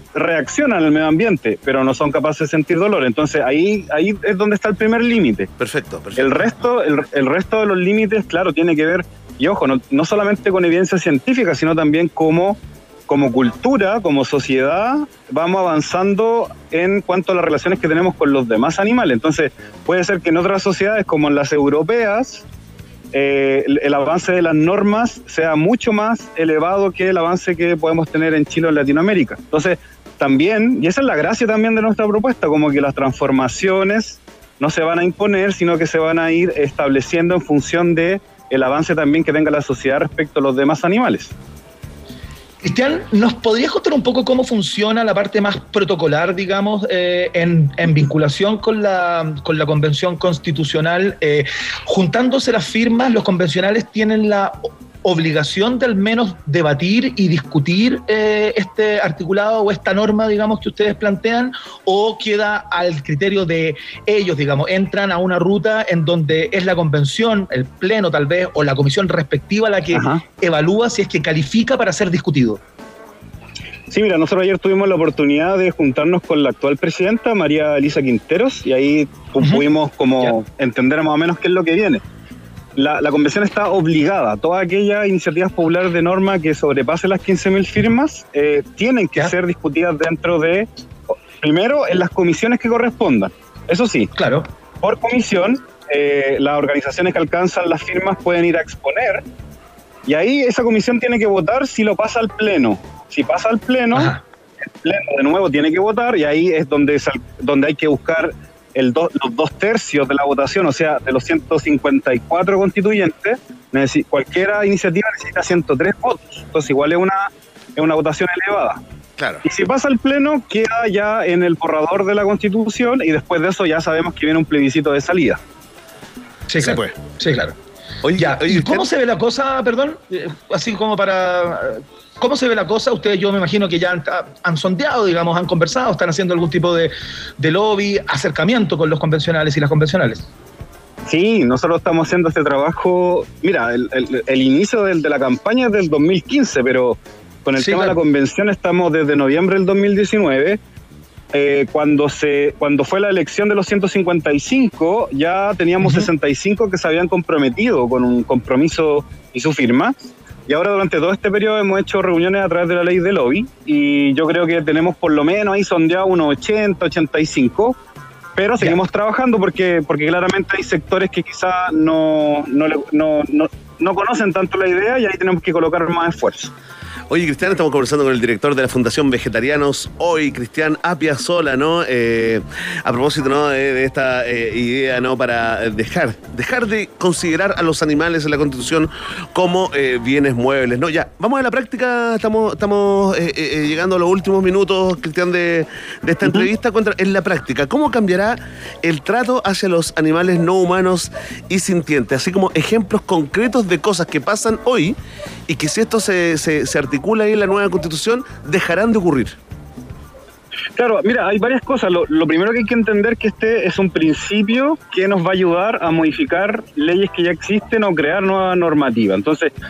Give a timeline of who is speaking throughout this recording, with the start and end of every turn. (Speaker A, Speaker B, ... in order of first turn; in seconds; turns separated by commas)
Speaker A: 0.1-5.5, Speaker B: 5.6-6.7, Speaker A: 6.2-22.4, Speaker A: 23.1-41.3, Speaker C: 42.6-72.6, Speaker A: 69.9-70.2, Speaker A: 73.9-82.0, Speaker A: 82.8-90.7, Speaker A: 91.4-94.1, Speaker C: 94.1-94.5, Speaker A: 94.8-99.2, Speaker A: 100.0-104.1, Speaker C: 103.9-104.2, Speaker A: 104.8-118.8, Speaker B: 119.2-119.4, Speaker A: 119.4-125.4, Speaker C: 126.5-127.5, Speaker B: 128.0-128.8, Speaker C: 128.2-140.2, Speaker A: 141.1-150.6, Speaker C: 147.6-147.9, Speaker A: 151.3-167.8, Speaker A: 168.3-176.5, Speaker B: 177.1-204.9, Speaker B: 205.5-209.3, Speaker A: 210.8-219.5